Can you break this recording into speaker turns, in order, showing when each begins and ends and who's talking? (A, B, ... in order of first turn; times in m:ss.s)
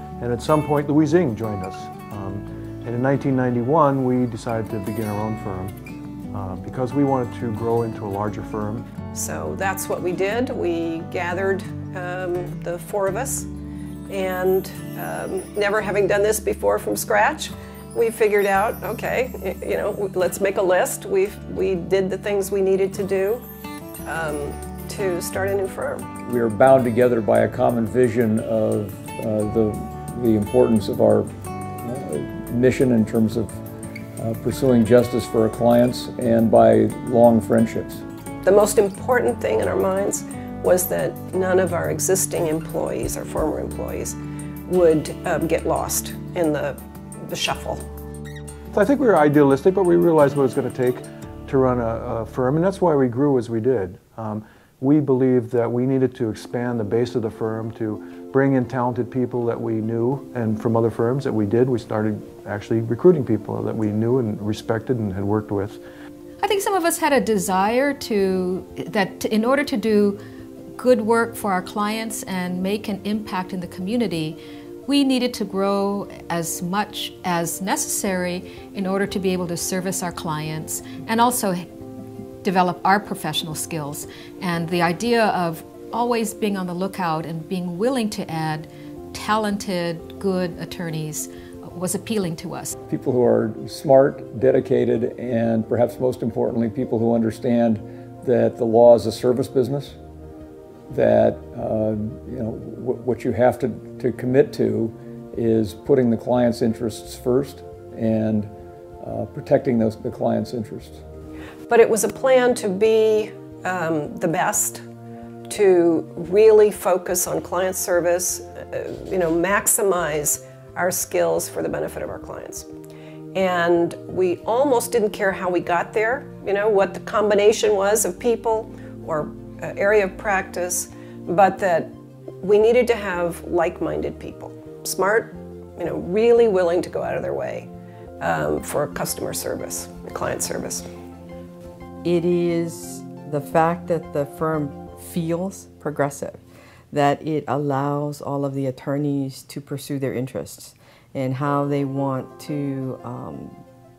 0:00.2-0:05.8 A
0:06.3-0:08.9 A
0:09.1-0:13.5 B
0:14.1-0:23.4 B
0:24.1-0:26.1 B
0:26.2-0:31.3 C
0:31.8-0:33.6 C
0:34.2-0:38.0 C
0:38.4-0:47.8 B
0:48.7-1:05.8 A
1:06.5-1:08.2 D
1:08.9-1:10.1 D
1:10.8-1:14.4 D
1:14.9-1:21.6 D
1:22.4-1:32.6 D
1:32.9-1:40.0 C
1:40.9-1:48.5 C
1:49.0-1:51.0 C
1:51.7-1:54.8 B
1:55.5-2:02.7 B
2:03.4-2:20.9 B
2:22.0-2:33.6 E